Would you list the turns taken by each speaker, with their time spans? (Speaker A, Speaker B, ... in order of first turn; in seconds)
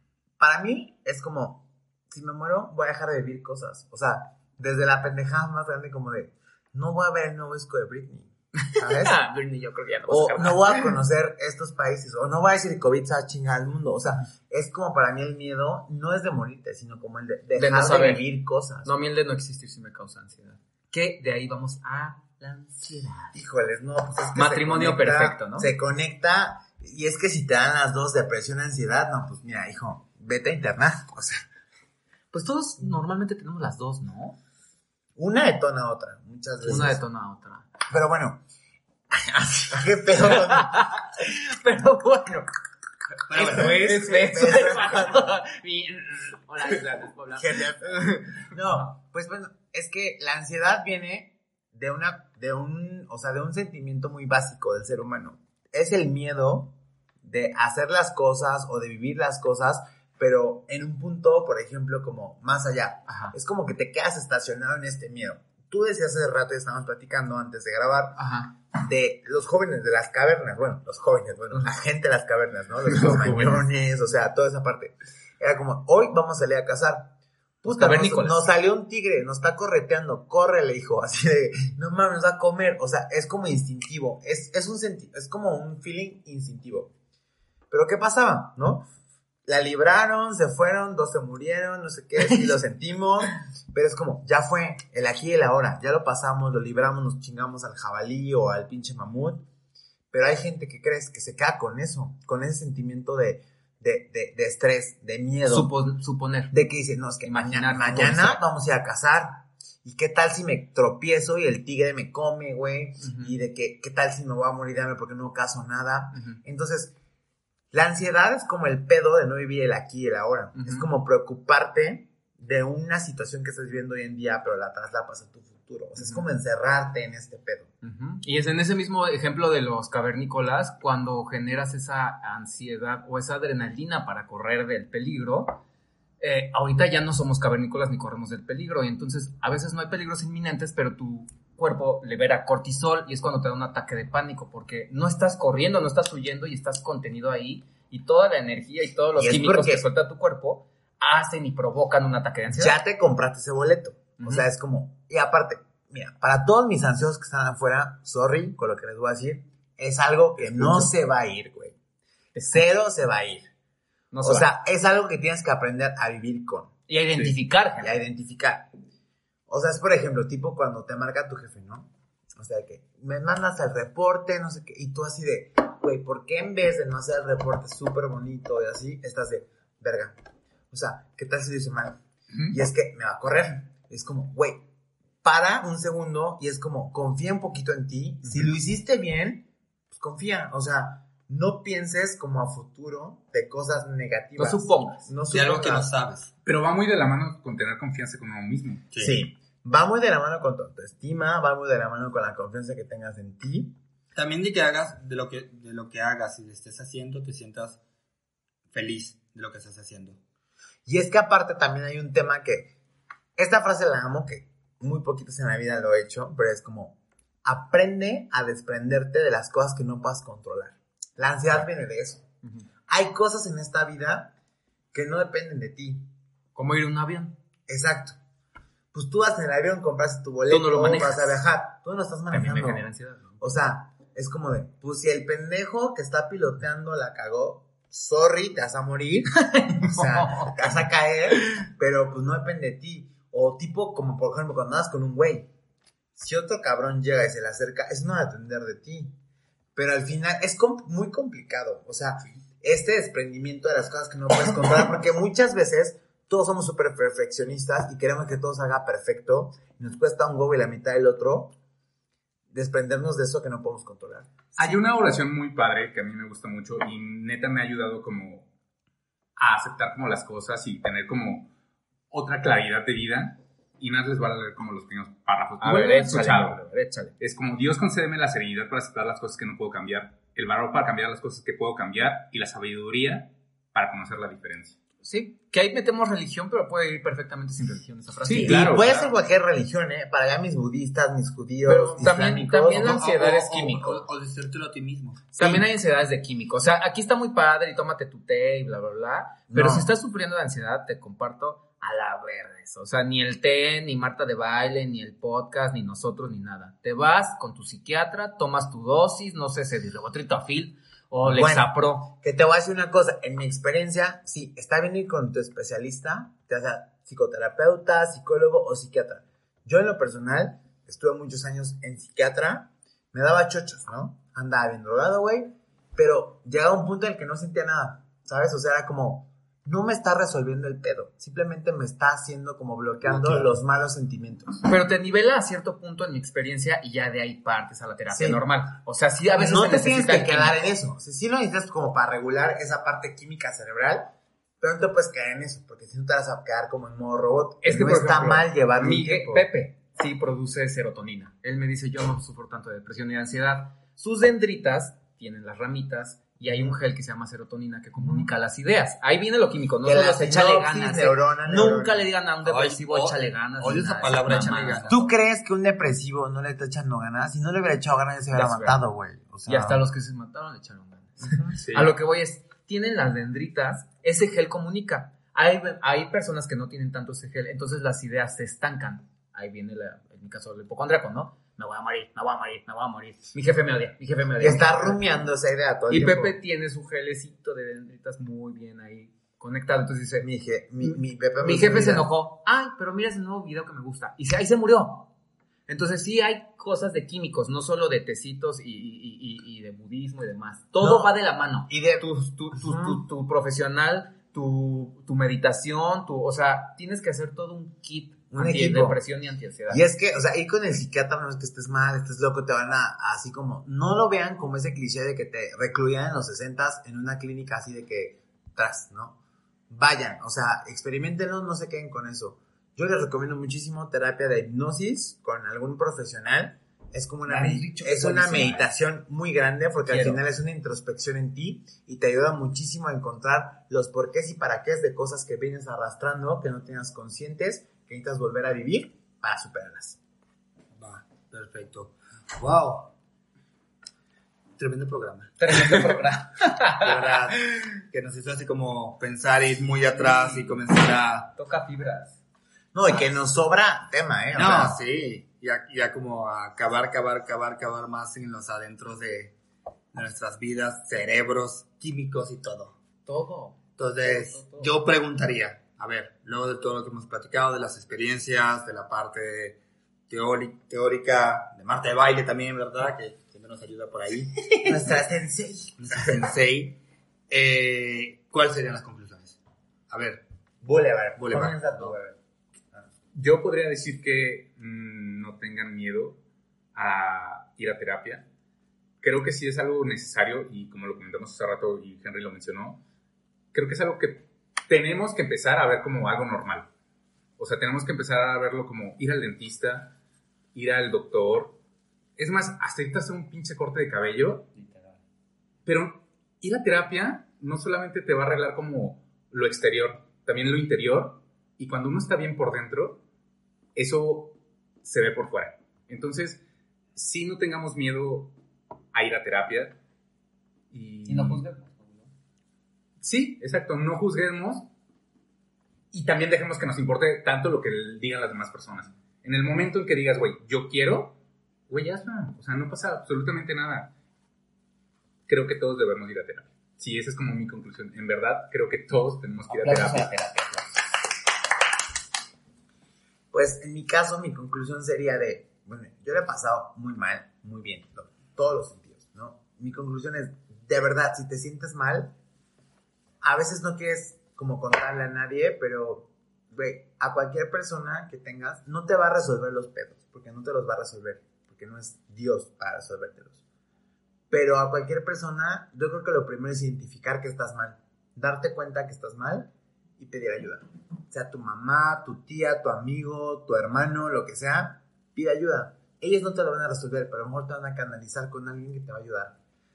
Speaker A: 0.4-9.2, 10.1-18.9, 23.3-31.4, 35.1-37.0, 37.9-38.4, 39.1-41.0, 43.4-45.3, 47.3-68.2, 68.7-77.1, 77.6-86.9, 87.7-88.8, 89.4-99.4, 100.1-105.7, 106.5-116.9, 117.7-127.7, 149.2-149.8, 152.5-161.8, 162.5-163.5, 164.2-166.7, 167.8-168.7, 169.5-180.2, 180.7-184.7, 185.2-195.9, 199.0-203.7, 210.8-212.7, 213.4-222.2, 222.9-224.3, 224.9-226.1, 227.7-228.2, 228.9-232.8, 233.4-245.5, 246.2-249.1, 249.7-261.5, 262.5-264.7, 288.3-293.0, 299.5-299.9, 311.2-334.7, 338.1-338.4, 339.4-349.5, 358.0-358.3, 359.8-362.1, 364.9-369.8, 371.2-371.6, 384.4-386.4, 390.2-392.1, 400.8-401.1, 401.7-403.0, 408.3-409.0, 409.7-419.2, 419.7-440.0, 452.7-454.8, 474.6-476.2, 480.6-482.2, 543.3-552.1, 553.2-563.4, 564.3-579.4
Speaker B: 8.6-10.9, 17.5-18.2, 18.8-23.4, 24.3-25.7, 32.3-34.4, 36.6-37.7, 40.2-42.5, 43.3-48.9, 63.1-63.3, 68.2-68.5, 72.8-73.7, 77.6-78.4, 105.4-106.5, 107.2-108.4, 113.0-113.3, 116.1-116.4, 120.5-120.9, 126.0-126.2, 127.8-135.6, 136.2-152.8, 154.2-154.4, 160.4-160.9, 162.3-162.7, 164.1-164.5, 166.9-168.0, 194.3-195.1, 226.5-227.3, 230.5-231.4, 232.3-233.4, 239.4-240.7, 275.6-277.1, 285.0-289.1, 291.6-294.1, 295.3-312.1, 334.6-340.6, 347.6-365.1, 368.3-368.8, 369.4-385.0, 385.9-390.3, 390.8-395.1, 395.7-409.8, 427.2-428.7, 429.8-430.2, 445.4-447.2, 449.8-450.6, 451.3-452.2, 463.1-464.8, 521.0-522.1, 539.5-540.7
Speaker C: 43.3-44.0, 195.3-196.3, 198.9-199.2, 204.1-207.8, 208.7-210.2, 292.7-295.2, 362.4-364.9, 440.8-442.9, 444.6-451.3, 454.3-459.3, 459.9-462.8, 463.8-469.6, 470.1-474.8, 475.8-479.4, 479.9-480.2, 481.2-481.9
Speaker D: 196.4-198.8, 264.6-268.5, 269.4-271.5, 272.1-276.6, 277.2-284.8, 288.2-289.1, 371.5-371.9, 483.1-486.2, 486.7-488.2, 489.0-492.8, 493.5-496.7, 497.4-499.9, 500.5-501.6, 502.2-504.7, 505.6-513.0, 513.7-516.4, 516.9-518.4, 518.9-519.8, 520.7-521.4, 523.0-524.7, 525.9-531.2, 531.7-533.9, 535.3-540.1